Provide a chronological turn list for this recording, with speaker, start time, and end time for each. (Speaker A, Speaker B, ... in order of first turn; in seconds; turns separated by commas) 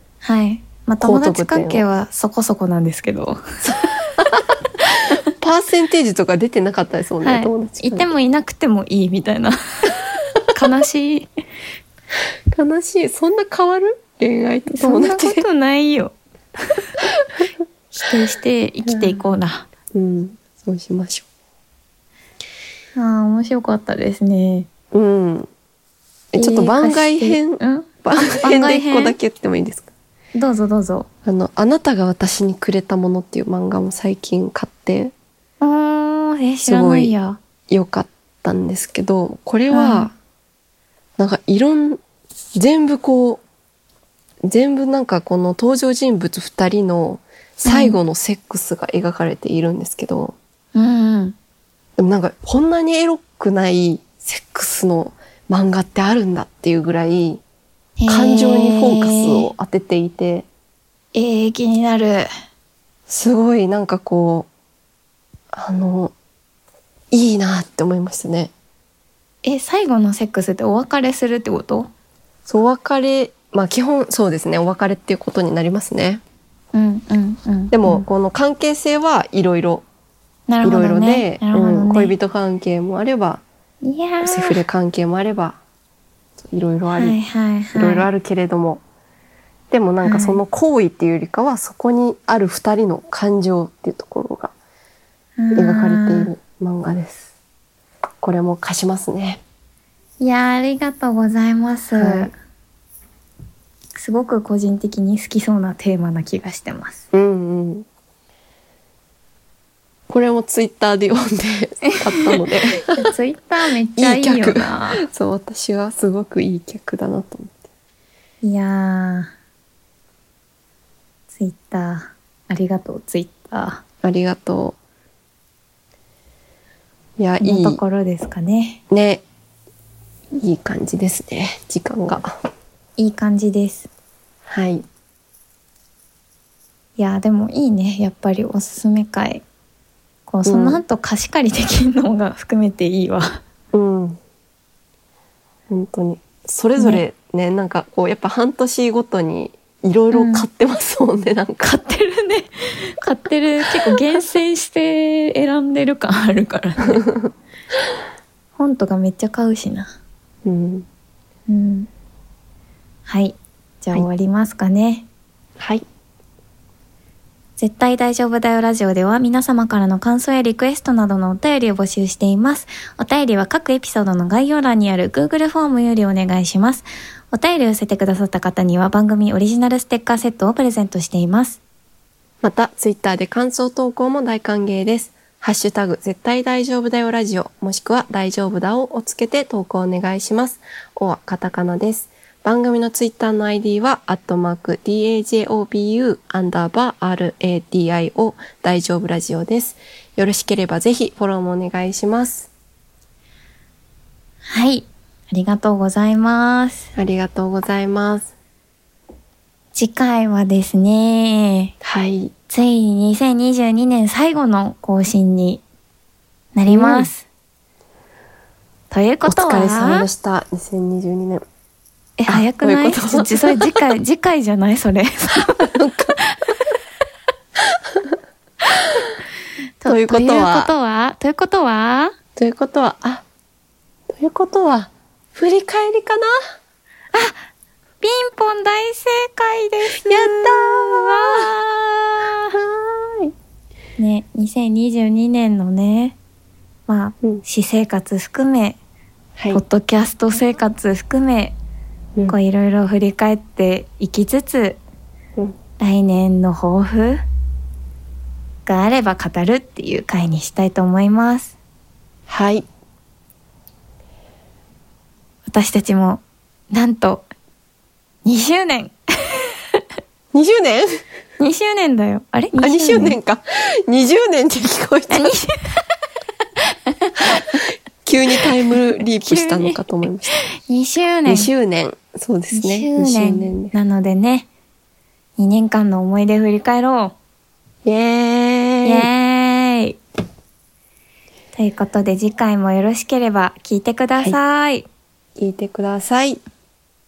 Speaker A: 0.2-3.4, Speaker B: 1.0-1.8, Speaker B: 3.6-4.4, Speaker A: 4.9-5.2, Speaker B: 5.4-8.1, Speaker A: 7.2-11.3, Speaker B: 12.5-15.4, Speaker A: 14.7-16.1, Speaker A: 17.9-19.7, Speaker B: 18.8-19.2, Speaker B: 19.9-21.2, Speaker A: 22.9-24.7, Speaker B: 24.9-25.5, Speaker B: 26.3-29.9, Speaker A: 26.4-27.9, Speaker A: 28.4-29.2, Speaker A: 30.3-31.1, Speaker B: 31.2-35.1, Speaker A: 35.6-37.4, Speaker B: 36.6-37.1, Speaker B: 37.7-40.1, Speaker A: 39.7-40.1, Speaker B: 41.2-42.0, Speaker B: 42.5-43.4, Speaker B: 44.5-50.3, Speaker A: 47.6-48.0, Speaker A: 50.7-51.3, Speaker B: 52.0-57.4, Speaker A: 58.0-59.5, Speaker B: 58.1-60.5, Speaker A: 61.1-62.3, Speaker B: 63.1-64.5, Speaker B: 65.5-66.1, Speaker B: 67.1-68.5, Speaker A: 69.4-71.9, Speaker B: 72.5-76.2, Speaker A: 76.7-78.0, Speaker B: 77.7-79.8, Speaker A: 80.5-82.1, Speaker B: 80.6-83.4, Speaker A: 83.8-84.6, Speaker B: 84.2-85.6, Speaker B: 86.4-87.2, Speaker A: 86.9-88.1, Speaker B: 87.8-88.8, Speaker B: 89.7-94.5, Speaker A: 90.0-90.4, Speaker A: 95.4-96.3, Speaker B: 95.5-97.2, Speaker B: 98.2-99.4, Speaker A: 100.2-102.3, Speaker B: 102.0-102.3, Speaker A: 104.0-107.0, Speaker B: 107.1-107.8, Speaker B: 110.1-113.1, Speaker A: 113.0-115.0, Speaker B: 114.0-117.5, Speaker A: 118.4-119.3, Speaker A: 121.3-123.8, Speaker B: 124.0-124.8, Speaker B: 127.2-127.8, Speaker A: 127.4-128.8, Speaker B: 128.9-129.2, Speaker B: 130.4-132.3, Speaker A: 133.0-133.9, Speaker B: 134.5-134.8, Speaker A: 137.0-139.4, Speaker A: 140.3-143.4, Speaker B: 140.4-140.8, Speaker B: 143.7-144.2, Speaker B: 145.7-151.7, Speaker A: 146.8-147.0, Speaker A: 150.1-150.4, Speaker A: 151.6-157.0, Speaker B: 153.7-154.0, Speaker B: 156.8-157.3, Speaker A: 158.6-159.9, Speaker B: 160.4-160.8, Speaker A: 161.5-161.9, Speaker A: 163.1-165.1, Speaker B: 165.6-165.8, Speaker A: 167.6-181.6, Speaker B: 182.4-202.5, Speaker A: 204.4-206.9, Speaker B: 206.9-208.3, Speaker A: 209.7-211.7, Speaker B: 211.8-212.3, Speaker A: 212.5-215.6, Speaker A: 216.5-217.2, Speaker B: 216.7-217.1, Speaker A: 218.9-220.1, Speaker B: 219.2-221.4, Speaker A: 222.2-225.7, Speaker B: 222.3-223.7, Speaker B: 225.7-226.1, Speaker A: 226.3-226.6, Speaker B: 227.7-228.1, Speaker A: 229.8-232.1, Speaker B: 229.8-230.7, Speaker B: 232.3-233.2, Speaker B: 234.1-236.3, Speaker A: 237.1-237.4, Speaker A: 238.0-242.5, Speaker B: 240.0-241.5, Speaker B: 242.5-243.3, Speaker A: 244.0-246.2, Speaker A: 246.9-248.8, Speaker B: 249.3-249.6, Speaker A: 249.5-251.6, Speaker A: 252.3-254.8, Speaker A: 255.8-257.2, Speaker A: 258.6-261.6, Speaker B: 262.3-262.6, Speaker A: 265.5-267.2, Speaker A: 268.2-269.4, Speaker B: 270.3-270.9, Speaker A: 271.4-273.2, Speaker B: 272.6-275.4, Speaker A: 275.1-275.5, Speaker A: 276.9-277.6, Speaker B: 278.0-280.3, Speaker A: 279.2-279.8, Speaker A: 280.7-281.5, Speaker B: 281.3-283.7, Speaker A: 282.5-284.5, Speaker A: 285.4-287.1, Speaker B: 287.8-289.1, Speaker A: 288.8-290.0, Speaker A: 291.5-294.9, Speaker B: 295.4-296.4